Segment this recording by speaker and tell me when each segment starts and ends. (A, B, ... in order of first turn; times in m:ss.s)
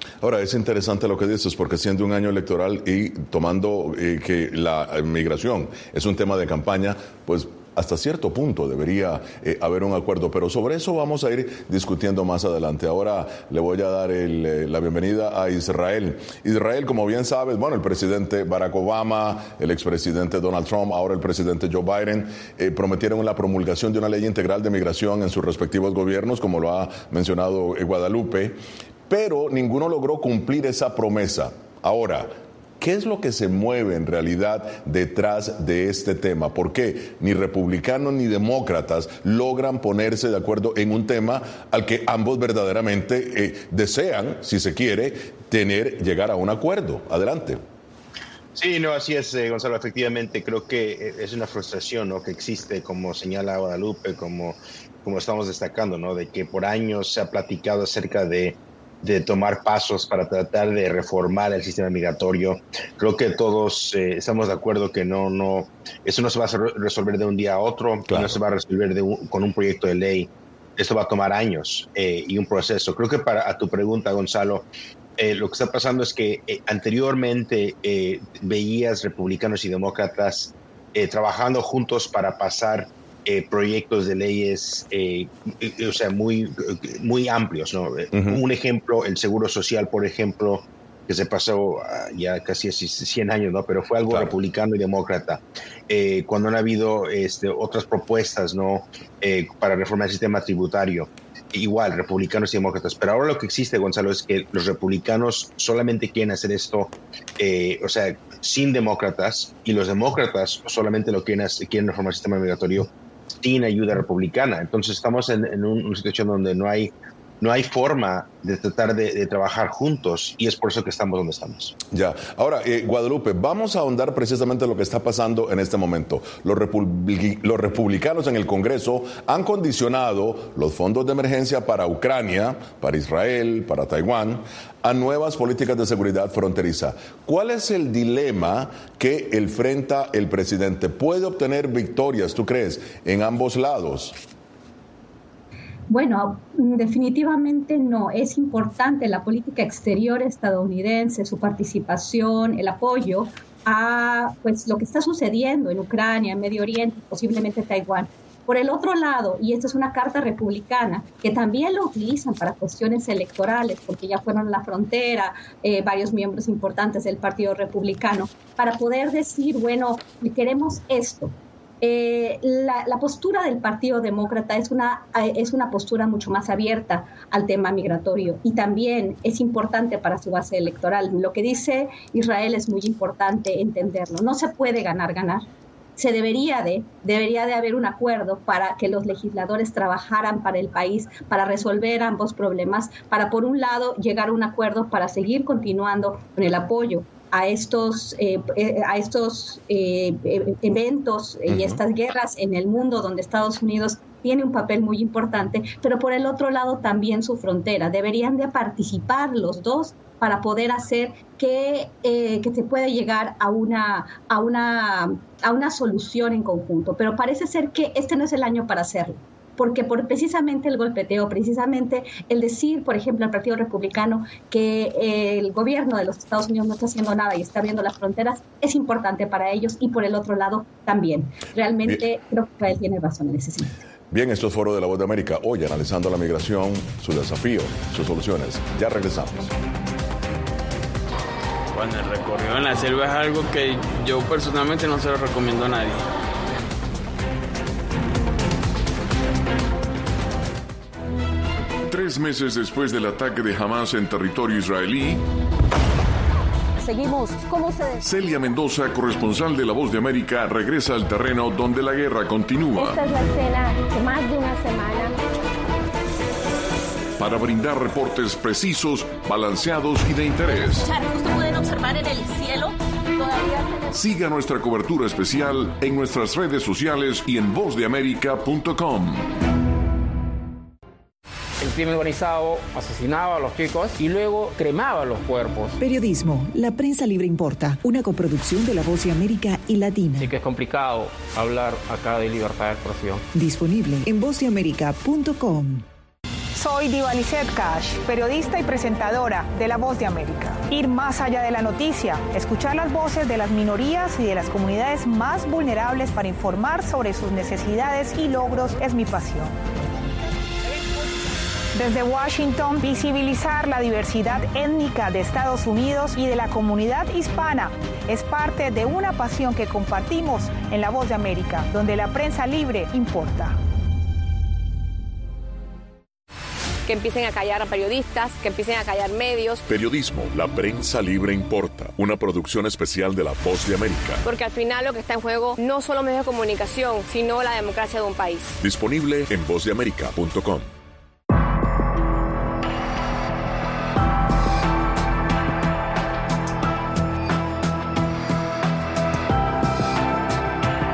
0:00.2-0:47.6 A
0:48.6-1:14.6 B
1:08.1-1:08.4 A
1:15.2-2:01.8 B
1:28.1-1:28.4 A
1:34.1-1:34.3 A
2:01.9-2:24.2 A
2:25.9-3:05.5 C
3:06.0-3:53.8 C
3:21.5-3:21.8 A
3:54.1-3:59.5 A
4:01.7-4:06.0 D
4:11.9-4:15.2 E
4:16.8-4:18.0 F
4:18.0-4:23.0 E
4:22.7-4:25.2 F
4:27.2-4:30.9 E
4:31.0-4:32.7 F
4:33.2-4:33.8 F
4:33.9-4:39.3 E
4:41.6-4:45.8 G
4:45.8-4:50.3 H
4:50.2-4:53.2 G
4:53.3-4:55.8 H
4:56.6-5:09.6 I
5:11.7-5:23.6 I
5:26.9-5:29.6 J
5:29.7-5:34.2 A
5:34.3-5:38.5 J
5:38.6-5:40.7 A
5:39.0-5:39.3 E